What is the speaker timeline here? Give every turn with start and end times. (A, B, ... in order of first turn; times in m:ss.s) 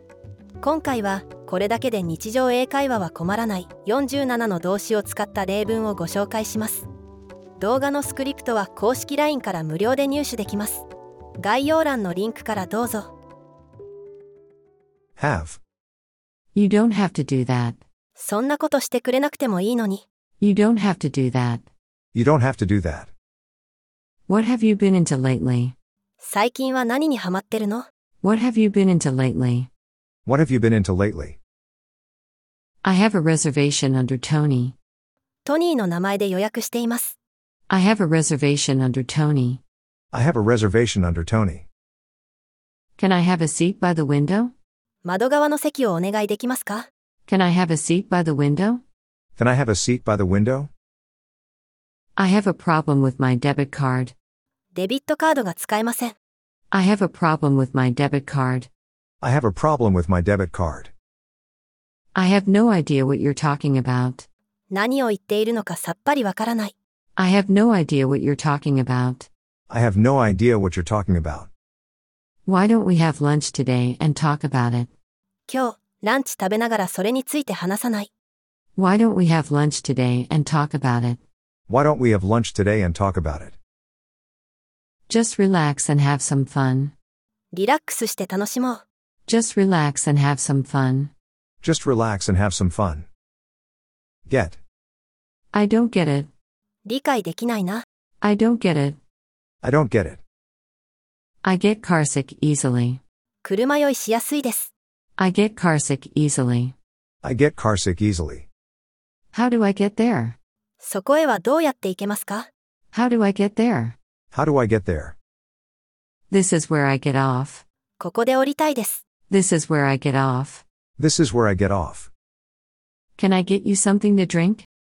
0:00.6-0:06.9 A
0:07.6-0:10.8 A
0:11.4-0:13.1 A
0:15.2-0:15.6 B
0:16.5-0:17.8 C
0:18.2-0:20.0 A
0:20.4-0:21.6 C
0:22.1-0:23.1 B
0:24.3-0:25.7 C
0:26.2-0:27.9 A
0:28.2-0:29.7 C
0:30.2-0:31.4 B
0:32.8-0:34.8 C
0:35.4-0:37.2 A
0:37.7-0:39.6 C
0:40.1-0:41.7 B
0:43.0-0:44.5 C
0:45.0-0:46.9 A
0:47.3-0:48.8 C
0:49.4-0:50.7 B
0:52.2-0:54.1 C
0:54.8-0:56.2 A
0:56.7-0:58.7 C
0:59.2-1:00.9 B
1:02.2-1:04.3 C
1:04.7-1:06.7 A
1:07.2-1:09.3 C
1:09.7-1:11.5 B
1:12.4-1:14.9 C
1:15.5-1:18.1 A
1:18.8-1:21.2 C
1:21.7-1:23.6 B
1:25.1-1:26.9 C
1:27.5-1:28.8 A
1:29.3-1:31.1 C
1:31.6-1:33.0 B
1:34.3-1:34.6 B
1:35.5-1:36.3 C
1:36.8-1:37.8 A
1:38.2-1:39.0 C
1:39.6-1:40.2 B
1:41.4-1:43.0 C
1:43.4-1:44.7 A
1:45.2-1:46.7 C
1:47.2-1:48.4 B
1:49.3-1:50.4 C
1:50.8-1:52.5 A
1:52.9-1:54.0 C
1:54.3-1:55.1 B
1:56.3-1:57.6 C
1:58.0-1:59.0 A
1:59.3-2:00.6 C
2:01.0-2:02.1 B
2:03.2-2:04.7 C